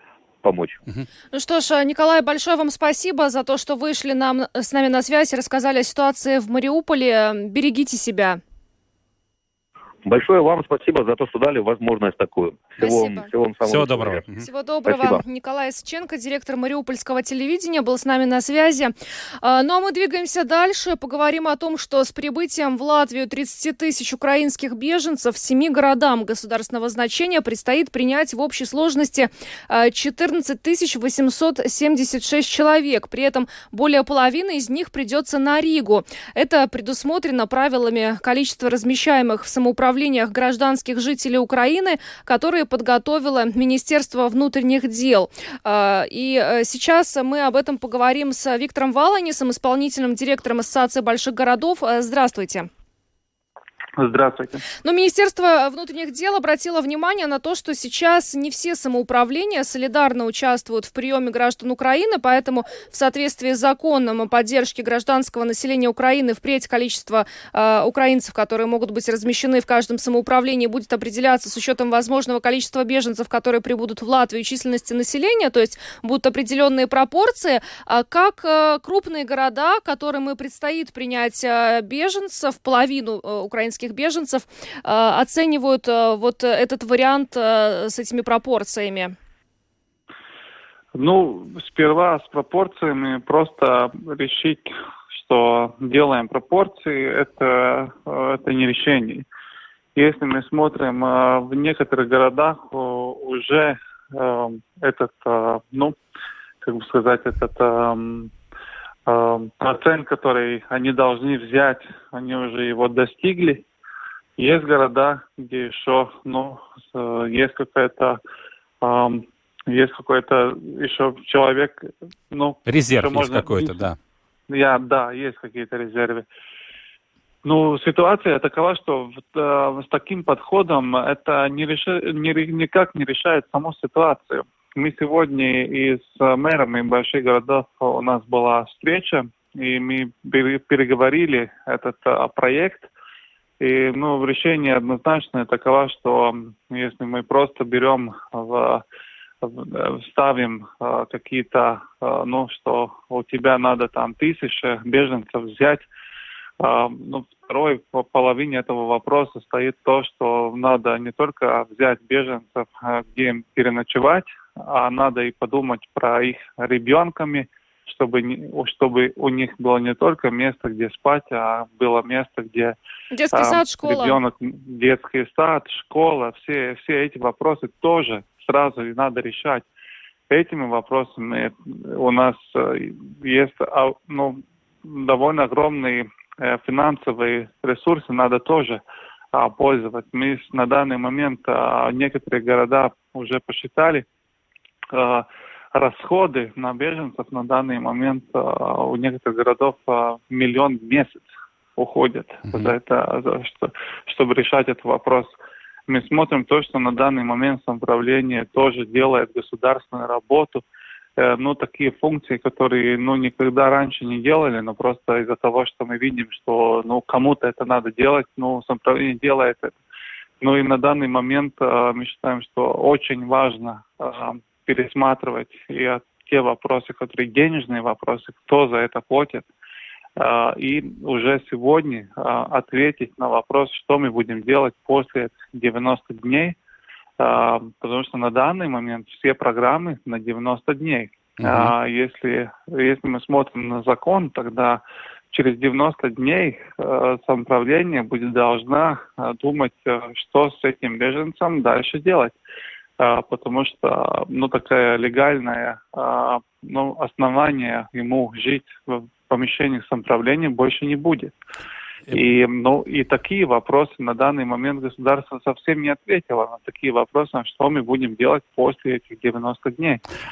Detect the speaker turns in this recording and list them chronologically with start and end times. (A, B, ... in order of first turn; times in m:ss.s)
0:00.4-0:00.8 A
0:01.3-0:08.4 B
0:10.0-0:14.2 A
0:12.8-0:13.3 B
0:13.6-0:14.4 C
0:14.4-0:52.7 B
0:14.9-0:15.2 A
0:54.0-0:54.6 D
0:54.8-1:29.1 B
1:30.9-1:39.3 D
1:40.0-1:46.0 D
1:46.6-1:48.3 D
1:49.0-1:53.6 D
1:54.4-1:58.2 D
1:58.8-2:03.8 D
2:02.7-2:04.0 C
2:04.5-2:06.2 D
2:07.4-2:22.9 D
2:23.6-2:28.8 D
2:29.4-2:35.9 D
2:36.6-2:52.8 D
2:53.1-2:54.2 B
2:53.3-2:59.6 D
3:00.3-3:08.8 D
3:09.3-3:14.0 D
3:14.9-3:21.2 D
3:21.8-3:25.3 D
3:25.9-3:30.6 D
3:31.2-3:39.8 D
3:40.4-3:49.4 D
3:50.2-3:56.6 D
3:57.2-4:12.4 D
4:01.4-4:01.7 C
4:13.0-4:21.3 D
4:22.1-4:30.0 D